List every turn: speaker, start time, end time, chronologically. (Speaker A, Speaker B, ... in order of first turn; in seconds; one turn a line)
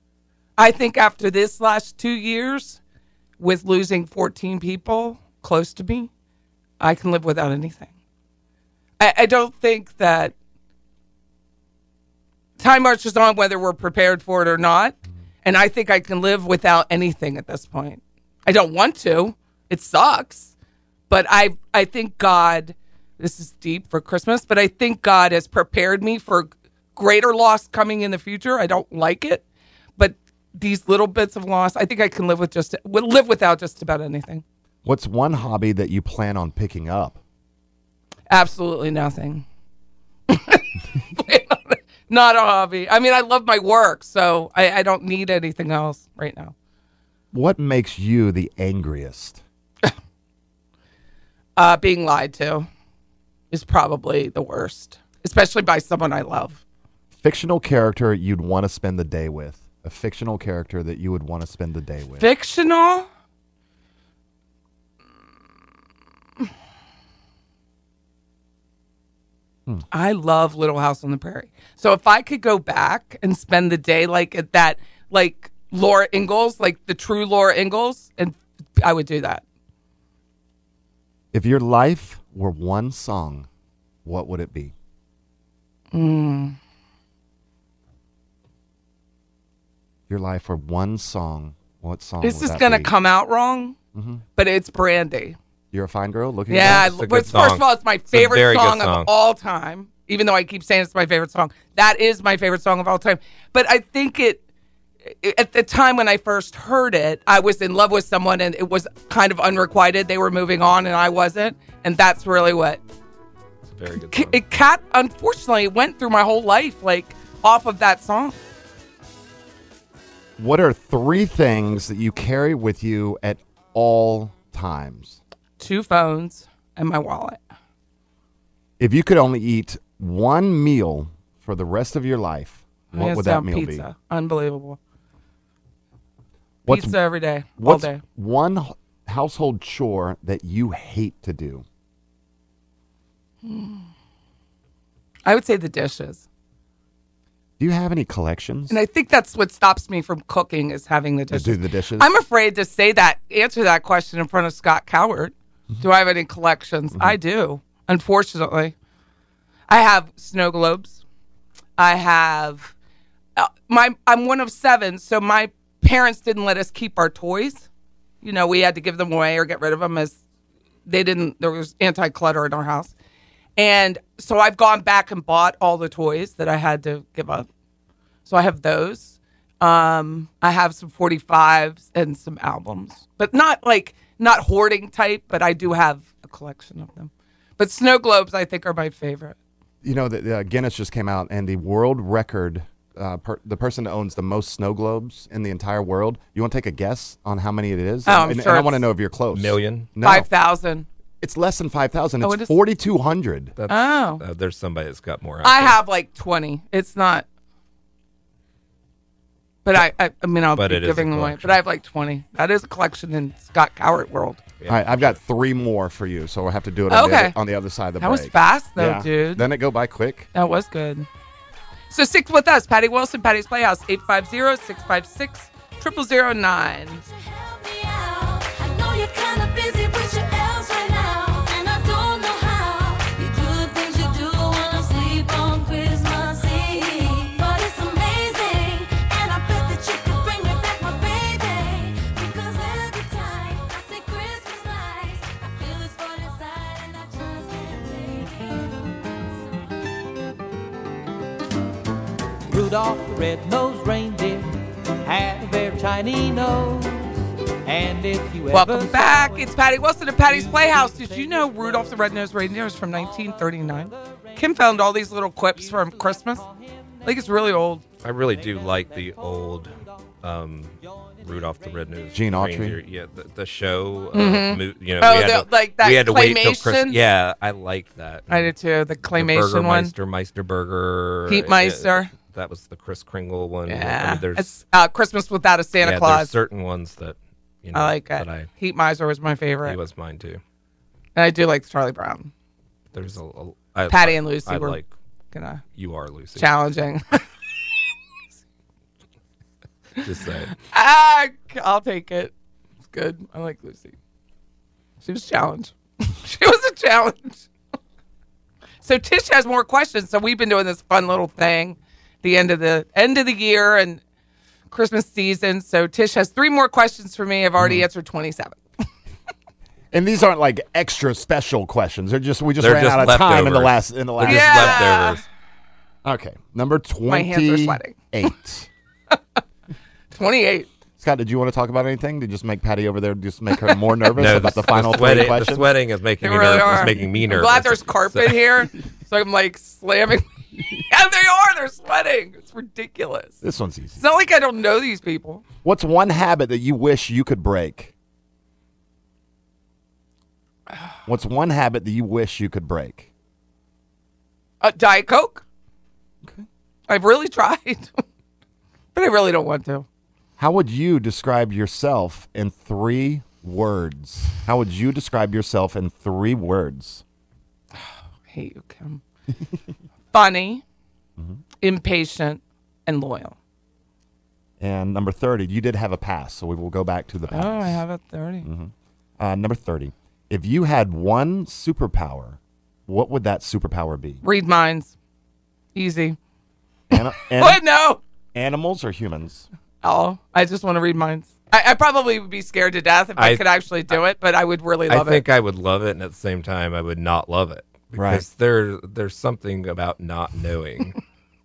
Speaker A: 0.6-2.8
Speaker A: 3.4-6.1
Speaker A: 6.8-7.9
Speaker A: 9.0-10.3
Speaker A: 12.6-20.5
Speaker A: 21.1-29.4
Speaker A: 30.0-34.4
Speaker B: 34.9-37.2
Speaker A: 38.3-39.5
Speaker A: 40.3-46.5
Speaker B: 47.3-49.4
Speaker A: 51.6-52.7
Speaker A: 53.5-56.6
Speaker B: 57.1-62.3
Speaker A: 62.2-63.1
Speaker A: 69.9-79.4
Speaker B: 81.3-83.5
Speaker B: 84.0-84.7
Speaker A: 85.9-86.6
Speaker B: 90.1-92.9
Speaker A: 92.2-93.8
Speaker B: 93.9-94.2
Speaker A: 94.4-95.4
Speaker B: 95.7-97.3
Speaker A: 96.5-104.4
Speaker C: 96.7-99.1
Speaker A: 105.1-112.8
Speaker C: 113.7-114.4
Speaker A: 114.0-118.4
Speaker B: 120.4-125.2
Speaker A: 125.6-127.4
Speaker B: 128.8-133.9
Speaker A: 132.9-134.8
Speaker B: 136.7-137.0
Speaker A: 136.7-138.0
Speaker B: 137.6-141.7
Speaker A: 143.4-143.8
Speaker A: 145.3-146.2
Speaker B: 147.6-148.8
Speaker A: 148.7-158.8
Speaker B: 151.3-152.1
Speaker A: 159.7-161.0
Speaker A: 161.8-162.7
Speaker A: 163.4-167.7
Speaker A: 168.2-170.2
Speaker A: 170.9-172.9
Speaker A: 173.6-177.5
Speaker A: 178.3-189.4
Speaker B: 189.8-200.3
Speaker A: 198.1-198.9
Speaker C: 199.3-199.9
Speaker A: 200.0-200.9
Speaker B: 201.2-203.6
Speaker A: 202.2-202.5
Speaker C: 203.6-205.8
Speaker A: 203.7-204.2
Speaker A: 205.4-207.3
Speaker A: 209.7-214.4
Speaker C: 210.6-211.6
Speaker C: 214.6-215.2
Speaker B: 214.7-220.3
Speaker A: 216.9-217.3
Speaker A: 218.0-219.4
Speaker A: 220.3-221.1
Speaker A: 221.9-227.0
Speaker D: 227.1-249.6
Speaker E: 252.5-259.6
Speaker A: 258.5-266.4
Speaker E: 260.2-267.4
Speaker A: 267.0-267.8
Speaker C: 268.0-278.5
Speaker E: 268.2-270.1
Speaker E: 270.8-272.1
Speaker B: 272.1-272.8
Speaker A: 274.1-277.0
Speaker A: 278.3-279.9
Speaker C: 279.1-284.6
Speaker A: 281.3-282.1
Speaker A: 283.7-286.3
Speaker C: 285.8-288.5
Speaker A: 287.7-289.8
Speaker C: 289.6-290.4
Speaker A: 291.1-292.3
Speaker C: 292.9-294.9
Speaker A: 293.9-294.8
Speaker A: 295.3-295.6
Speaker C: 295.8-296.5
Speaker A: 296.4-297.2
Speaker C: 300.0-300.6
Speaker A: 300.6-302.3
Speaker A: 302.9-303.9
Speaker A: 305.0-307.5
Speaker A: 308.8-314.0
Speaker A: 314.7-318.6
Speaker B: 319.9-324.9
Speaker C: 322.6-325.2
Speaker A: 324.2-325.2
Speaker B: 326.1-328.7
Speaker A: 327.1-328.0
Speaker A: 330.1-330.7
Speaker B: 331.0-335.7
Speaker C: 334.1-338.6
Speaker A: 336.2-343.4
Speaker B: 343.4-344.0
Speaker A: 344.0-345.4
Speaker B: 345.6-347.9
Speaker B: 351.1-353.1
Speaker A: 354.6-355.4
Speaker A: 356.9-357.9
Speaker A: 358.9-359.9
Speaker B: 360.4-367.0
Speaker A: 368.3-369.0
Speaker A: 370.1-370.6
Speaker A: 371.6-373.4
Speaker B: 374.6-377.8
Speaker A: 377.3-378.5
Speaker B: 378.4-384.2
Speaker A: 384.2-384.9
Speaker A: 385.8-386.2
Speaker B: 386.9-387.6
Speaker A: 387.4-388.0
Speaker B: 388.3-389.5
Speaker A: 389.8-395.2
Speaker C: 393.2-393.4
Speaker C: 394.9-401.0
Speaker B: 398.0-398.3